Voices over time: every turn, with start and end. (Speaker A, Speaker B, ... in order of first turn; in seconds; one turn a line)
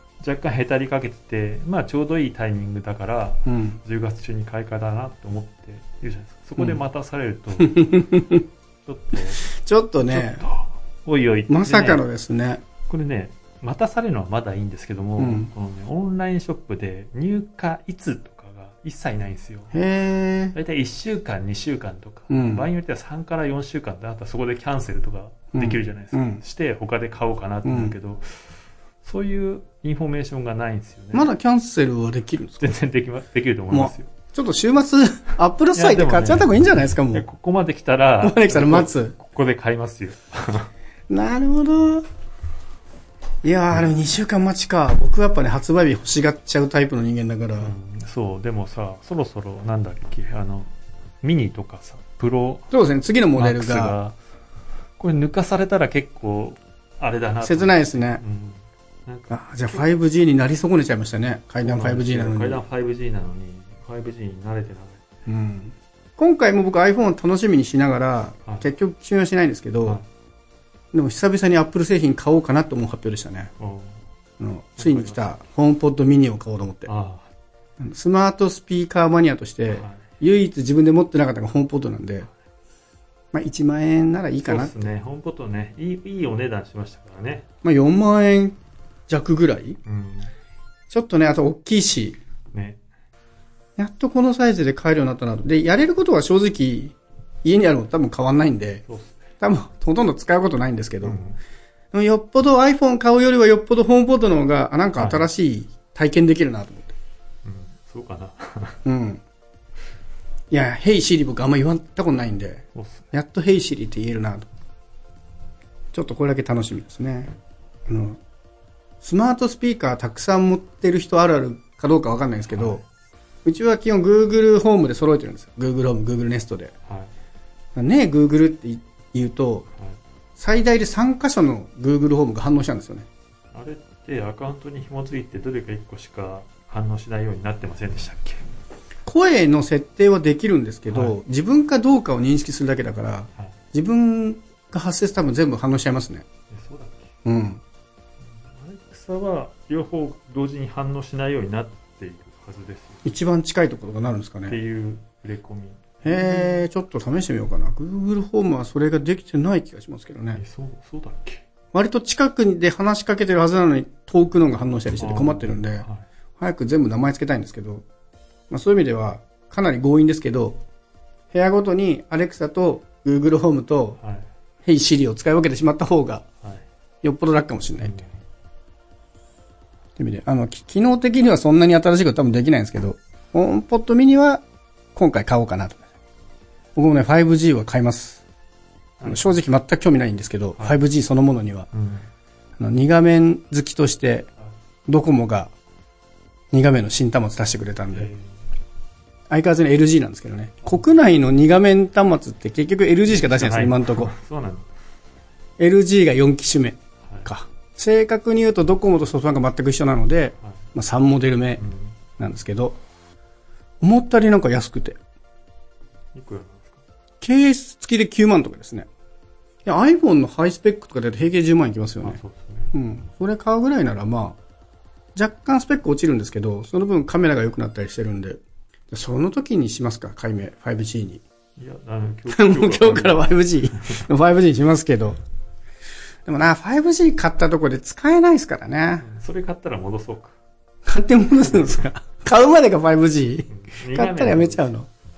Speaker A: 0.2-8.1
Speaker B: 3.5-3.8
Speaker B: 7.6-8.4
Speaker A: 8.8-9.4
Speaker B: 9.4-10.5
Speaker A: 10.1-12.0
Speaker B: 11.5-12.6
Speaker A: 12.9-19.8
Speaker B: 15.2-15.5
Speaker B: 19.7-20.6
Speaker A: 20.5-31.3
Speaker B: 22.3-22.7
Speaker B: 25.5-26.4
Speaker B: 27.6-28.0
Speaker B: 31.1-32.7
Speaker A: 32.6-34.1
Speaker B: 33.7-37.3
Speaker A: 35.7-40.7
Speaker B: 38.2-39.1
Speaker B: 41.1-42.0
Speaker B: 43.4-47.7
Speaker A: 47.6-52.7
Speaker B: 52.7-54.0
Speaker A: 53.4-54.2
Speaker A: 55.0-59.8
Speaker B: 57.4-58.2
Speaker B: 59.3-62.6
Speaker A: 61.6-65.0
Speaker B: 65.3-70.0
Speaker A: 68.4-68.7
Speaker B: 70.9-73.5
Speaker A: 73.6-74.1
Speaker B: 74.4-76.9
Speaker A: 74.8-75.4
Speaker A: 76.9-77.3
Speaker B: 77.8-82.3
Speaker A: 79.7-80.1
Speaker B: 83.3-84.8
Speaker A: 84.5-87.5
Speaker B: 87.6-88.6
Speaker B: 89.1-89.8
Speaker A: 89.8-90.3
Speaker B: 90.9-92.2
Speaker A: 92.5-92.8
Speaker B: 93.8-98.8
Speaker A: 98.9-99.2
Speaker B: 99.4-101.2
Speaker A: 101.0-101.4
Speaker B: 101.9-106.9
Speaker A: 105.0-105.3
Speaker A: 107.4-108.8
Speaker B: 108.8-109.2
Speaker B: 110.5-114.5
Speaker A: 112.8-113.0
Speaker B: 115.9-117.3
Speaker B: 117.9-118.2
Speaker B: 119.0-122.8
Speaker A: 122.5-122.8
Speaker B: 123.5-126.7
Speaker A: 126.9-127.1
Speaker B: 127.8-129.7
Speaker B: 130.4-133.1
Speaker A: 133.5-138.4
Speaker B: 139.1-146.2
Speaker A: 140.9-141.2
Speaker A: 146.5-147.1
Speaker B: 147.2-147.6
Speaker A: 148.2-153.1
Speaker B: 153.1-154.6
Speaker A: 154.5-156.7
Speaker B: 156.0-160.4
Speaker A: 160.3-161.4
Speaker B: 161.7-165.9
Speaker A: 165.0-166.1
Speaker B: 166.4-167.8
Speaker B: 168.5-170.6
Speaker B: 171.3-174.0
Speaker A: 174.0-174.3
Speaker B: 174.7-176.2
Speaker B: 177.0-178.1
Speaker A: 177.8-178.2
Speaker B: 180.0-184.4
Speaker B: 184.9-185.8
Speaker B: 186.8-188.2
Speaker A: 189.0-189.4
Speaker B: 189.0-191.7
Speaker A: 191.7-192.1
Speaker B: 192.6-194.3
Speaker B: 194.9-195.5
Speaker B: 196.5-198.1
Speaker A: 197.9-198.4
Speaker B: 199.3-204.1
Speaker A: 203.1-204.7
Speaker B: 205.6-211.6
Speaker A: 211.6-212.0
Speaker B: 212.2-212.8
Speaker B: 213.8-215.0
Speaker A: 216.2-216.8
Speaker B: 217.2-218.9
Speaker B: 219.7-222.2
Speaker A: 222.0-222.7
Speaker B: 222.7-224.4
Speaker B: 225.2-231.2
Speaker A: 231.6-234.1
Speaker B: 232.3-235.2
Speaker B: 236.3-239.1
Speaker A: 239.0-240.4
Speaker B: 240.9-244.9
Speaker A: 241.5-241.9
Speaker A: 243.5-244.7